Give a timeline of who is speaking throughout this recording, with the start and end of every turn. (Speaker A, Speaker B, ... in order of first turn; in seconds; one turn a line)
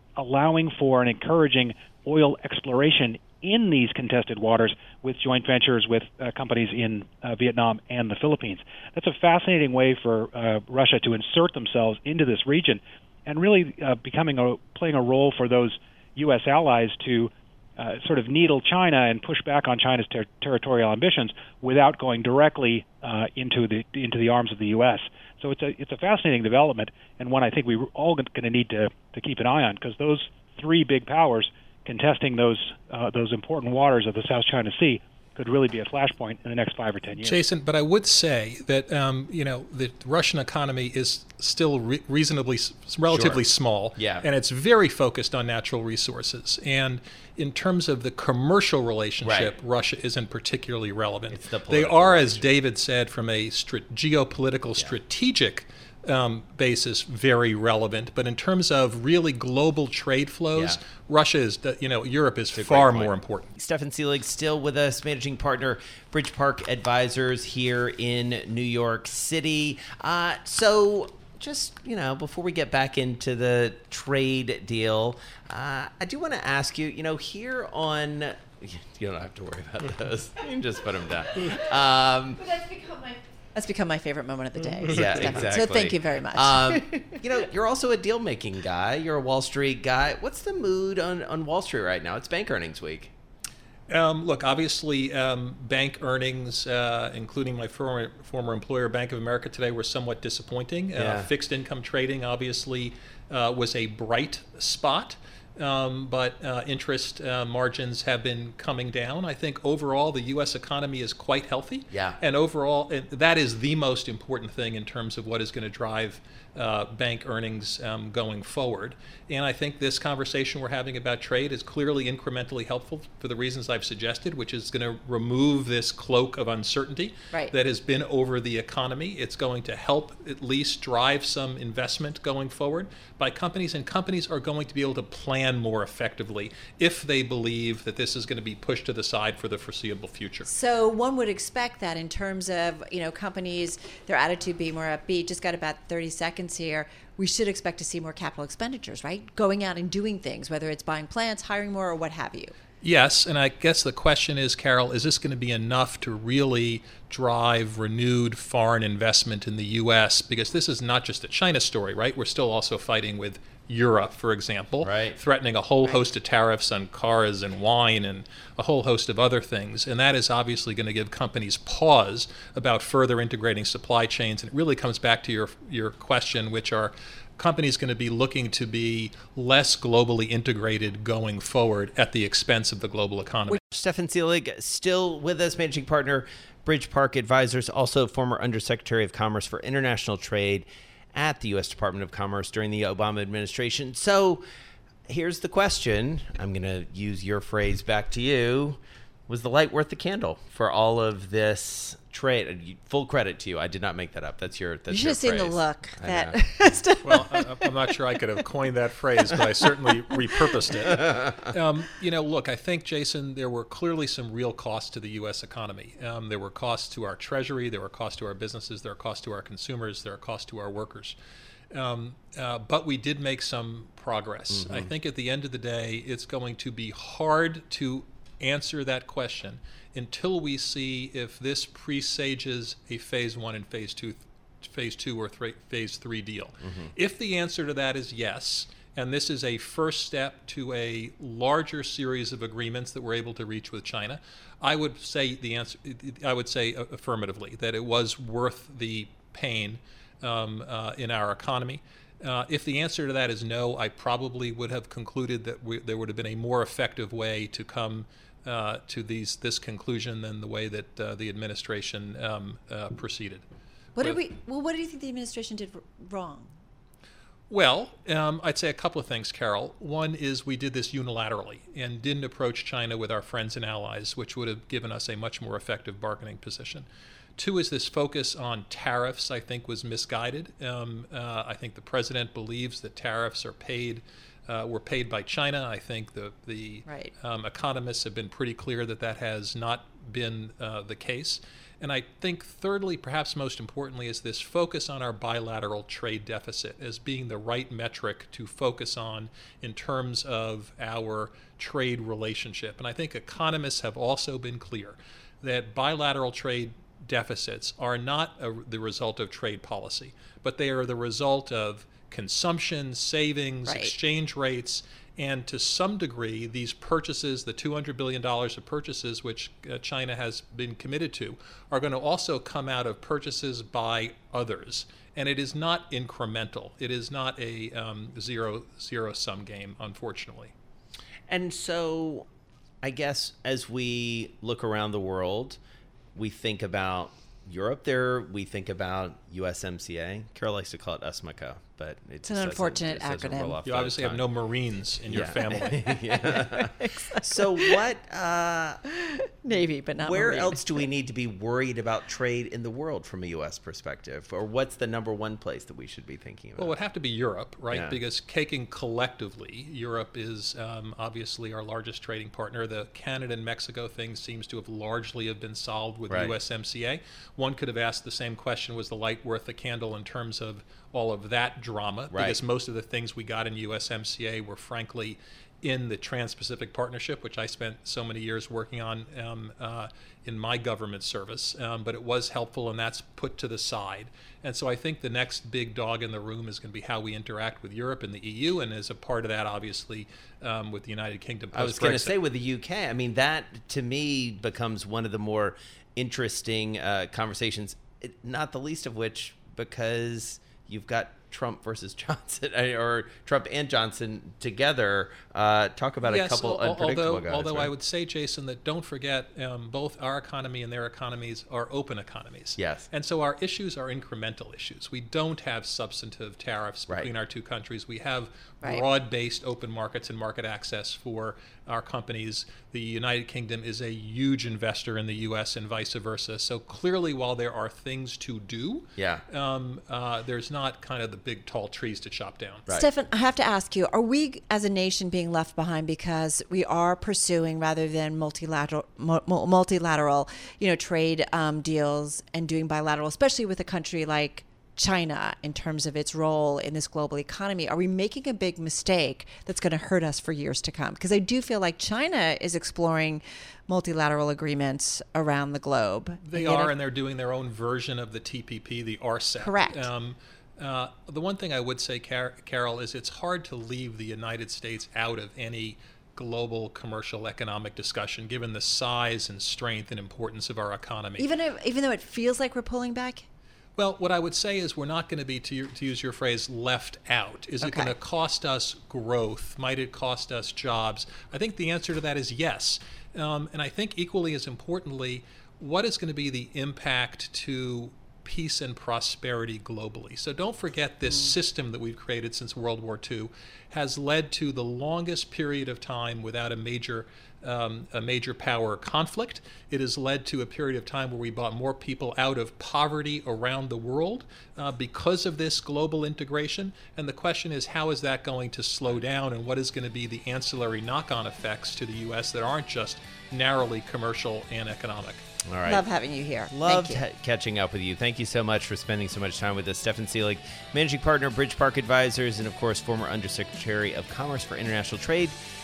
Speaker A: 0.2-37.4
Speaker B: 37.2-63.5
Speaker C: 43.1-43.4
Speaker C: 44.0-44.3
Speaker C: 49.2-49.5
Speaker C: 51.3-52.5
Speaker C: 62.5-82.5
Speaker D: 82.4-87.2
Speaker C: 84.9-93.1
Speaker B: 93.9-140.5
Speaker C: 101.0-101.3
Speaker C: 111.9-112.2
Speaker D: 140.5-152.5
Speaker B: 152.8-183.6
Speaker C: 164.8-165.2
Speaker C: 183.7-194.4
Speaker C: 195.1-206.4
Speaker D: 204.9-207.4
Speaker B: 207.0-221.2
Speaker B: 221.7-263.4
Speaker C: 224.5-224.9
Speaker C: 236.6-236.9
Speaker D: 264.0-266.5
Speaker B: 267.5-330.5
Speaker D: 286.9-287.1
Speaker D: 313.7-313.9
Speaker C: 331.3-332.2
Speaker C: 332.8-335.6
Speaker C: 336.1-344.2
Speaker D: 342.3-343.6
Speaker B: 343.6-345.9
Speaker C: 345.1-348.8
Speaker D: 346.0-347.8
Speaker D: 349.3-350.6
Speaker C: 350.0-356.8
Speaker B: 356.6-392.1
Speaker C: 357.7-358.0
Speaker C: 366.1-366.3
Speaker C: 372.1-372.4
Speaker C: 391.5-407.7
Speaker B: 406.1-432.7
Speaker C: 412.6-412.9
Speaker C: 429.0-429.2
Speaker D: 432.7-456.7
Speaker B: 456.3-471.3
Speaker D: 459.4-459.9
Speaker D: 471.2-473.2
Speaker B: 473.8-515.2
Speaker D: 477.6-477.9
Speaker C: 515.5-515.9
Speaker D: 515.7-517.0
Speaker C: 516.5-525.4